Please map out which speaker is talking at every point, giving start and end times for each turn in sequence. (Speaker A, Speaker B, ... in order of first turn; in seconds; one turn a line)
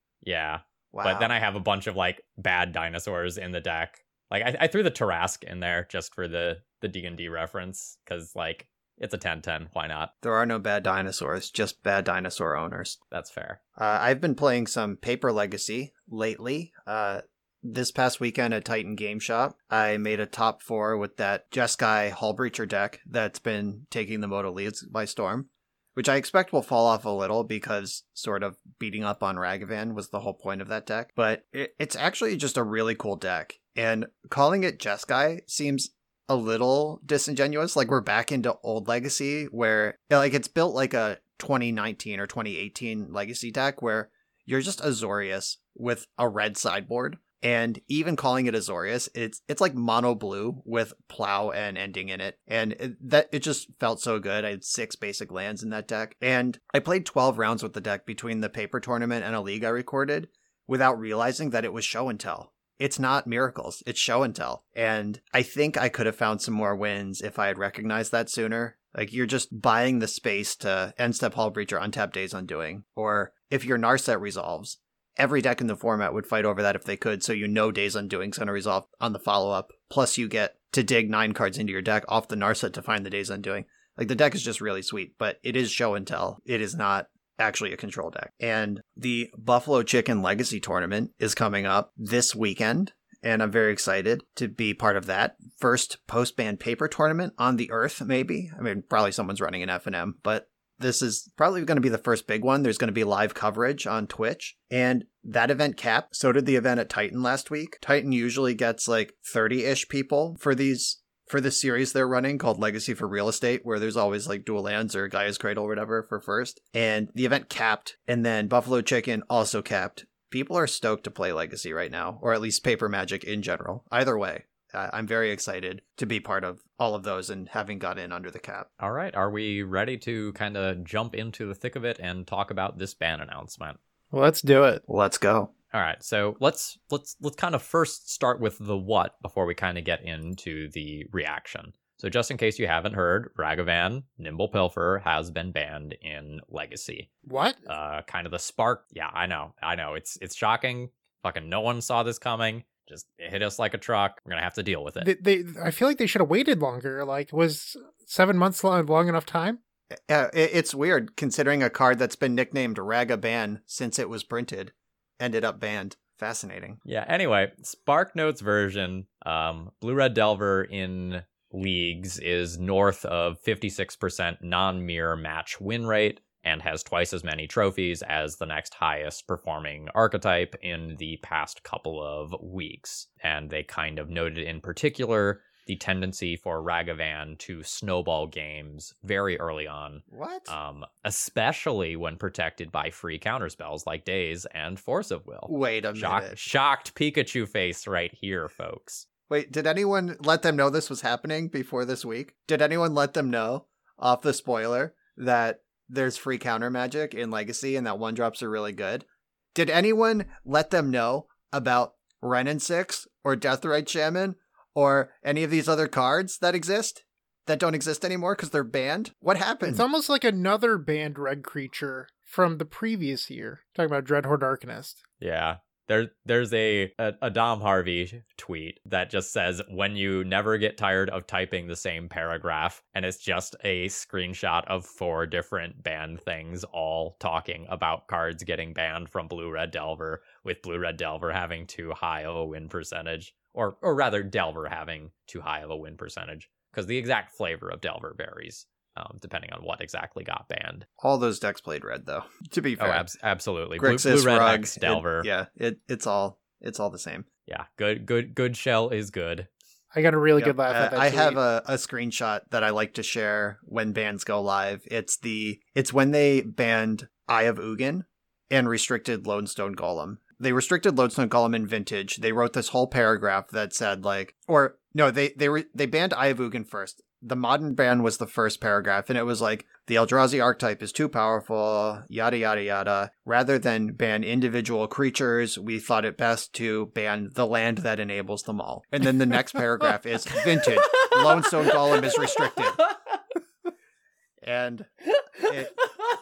Speaker A: 0.2-10.1
Speaker B: 0.9-1.3
Speaker B: 10.2-13.0
Speaker A: 13.1-13.6
Speaker B: 13.8-128.7
Speaker A: 128.8-133.8
Speaker C: 134.1-134.8
Speaker B: 134.9-135.5
Speaker A: 135.7-147.1
Speaker C: 147.3-147.6
Speaker A: 147.7-155.1
Speaker C: 155.0-159.6
Speaker B: 160.1-166.8
Speaker A: 166.9-199.1
Speaker B: 190.1-190.5
Speaker B: 195.5-196.4
Speaker B: 199.3-219.8
Speaker C: 219.6-225.0
Speaker A: 225.2-250.9
Speaker B: 251.0-253.1
Speaker A: 252.8-255.3
Speaker B: 253.8-257.3
Speaker A: 257.5-259.5
Speaker C: 259.9-261.4
Speaker B: 260.4-292.8
Speaker B: 294.4-295.8